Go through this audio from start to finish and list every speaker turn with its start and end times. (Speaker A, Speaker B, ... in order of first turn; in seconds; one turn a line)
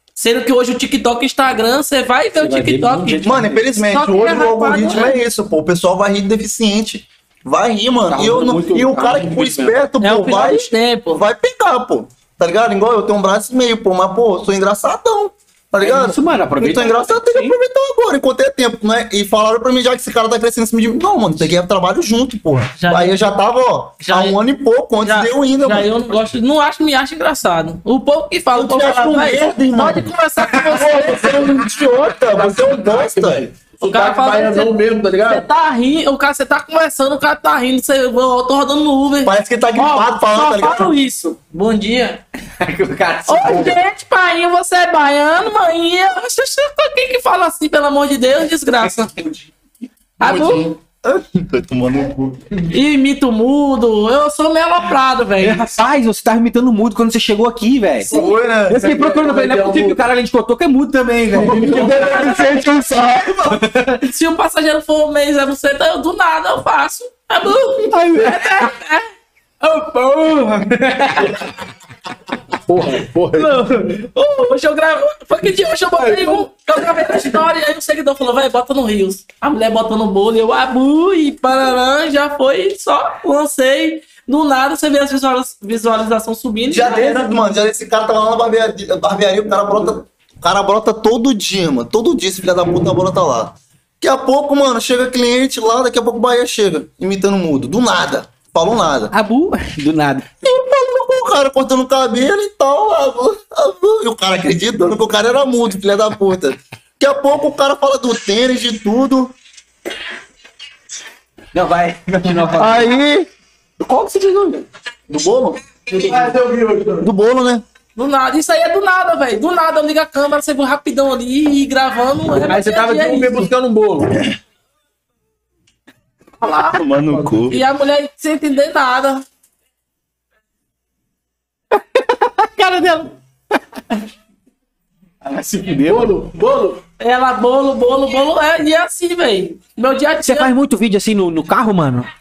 Speaker A: 0.1-3.3
Speaker B: 2.4-3.6
Speaker C: 3.2-26.0
Speaker A: 3.8-5.2
Speaker B: 8.1-9.8
Speaker A: 10.0-11.2
Speaker B: 15.8-17.5
Speaker A: 22.8-23.2
Speaker A: 24.0-24.4
Speaker A: 25.0-31.5
Speaker C: 28.5-33.5
Speaker D: 33.0-35.5
Speaker A: 33.8-42.2
Speaker C: 39.2-40.9
Speaker B: 42.6-43.8
Speaker A: 43.3-49.1
Speaker A: 50.2-50.7
Speaker C: 50.2-52.6
Speaker A: 52.7-55.7
Speaker B: 55.4-58.1
Speaker C: 58.1-58.8
Speaker D: 58.1-60.0
Speaker B: 58.7-62.5
Speaker C: 61.4-63.6
Speaker D: 61.4-62.3
Speaker B: 63.6-63.9
Speaker A: 64.0-69.1
Speaker B: 67.9-68.7
Speaker A: 69.6-71.4
Speaker D: 72.7-73.9
Speaker A: 73.3-87.3
Speaker D: 76.0-76.5
Speaker C: 86.7-99.1
Speaker B: 99.1-100.3
Speaker C: 100.4-109.3
Speaker B: 111.5-112.9
Speaker C: 112.5-113.3
Speaker B: 113.8-114.7
Speaker C: 115.1-115.6
Speaker D: 115.9-117.1
Speaker C: 117.0-117.6
Speaker A: 118.0-123.5
Speaker D: 122.3-124.2
Speaker A: 126.4-126.8
Speaker C: 126.6-127.6
Speaker D: 127.1-127.4
Speaker A: 127.5-129.2
Speaker B: 131.7-133.1
Speaker D: 135.2-136.8
Speaker A: 137.0-140.5
Speaker B: 140.2-142.1